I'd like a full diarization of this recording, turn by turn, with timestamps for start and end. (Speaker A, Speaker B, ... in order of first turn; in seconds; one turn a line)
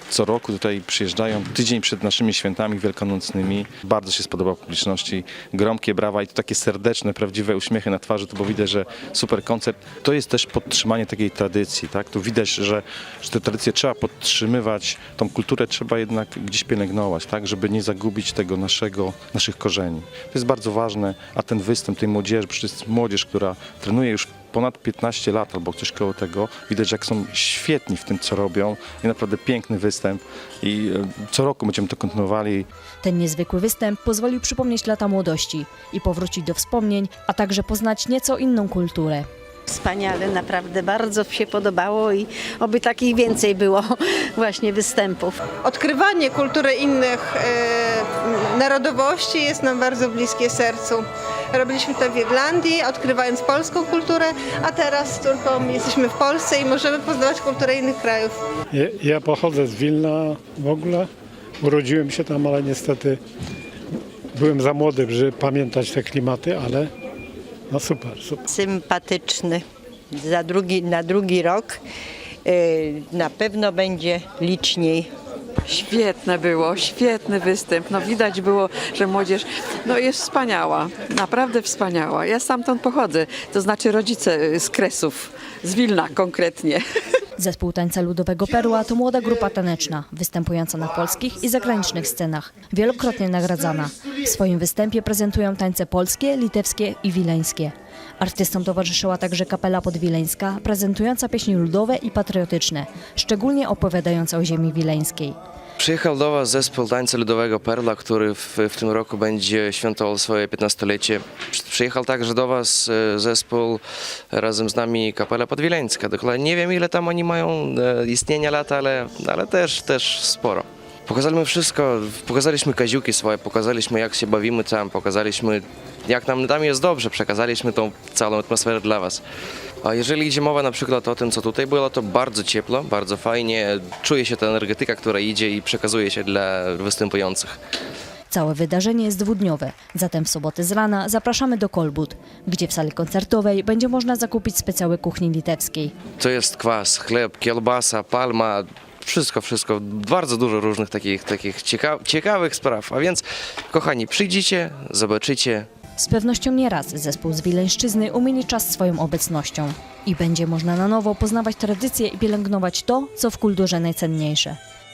Speaker A: 0.1-32.6
Speaker B: 33.0-39.3
Speaker C: 39.7-45.4
Speaker D: 45.6-51.0
Speaker D: 51.5-58.3
Speaker E: 58.7-61.1
Speaker E: 61.6-63.2
Speaker E: 64.3-66.9
Speaker E: 67.7-68.4
Speaker F: 68.5-71.8
Speaker F: 72.4-75.1
Speaker G: 75.6-86.8
Speaker B: 87.4-105.4
Speaker H: 105.8-129.2
Speaker H: 129.8-137.6
Speaker B: 138.3-145.9
Speaker H: 146.2-155.7
Speaker B: 156.0-164.6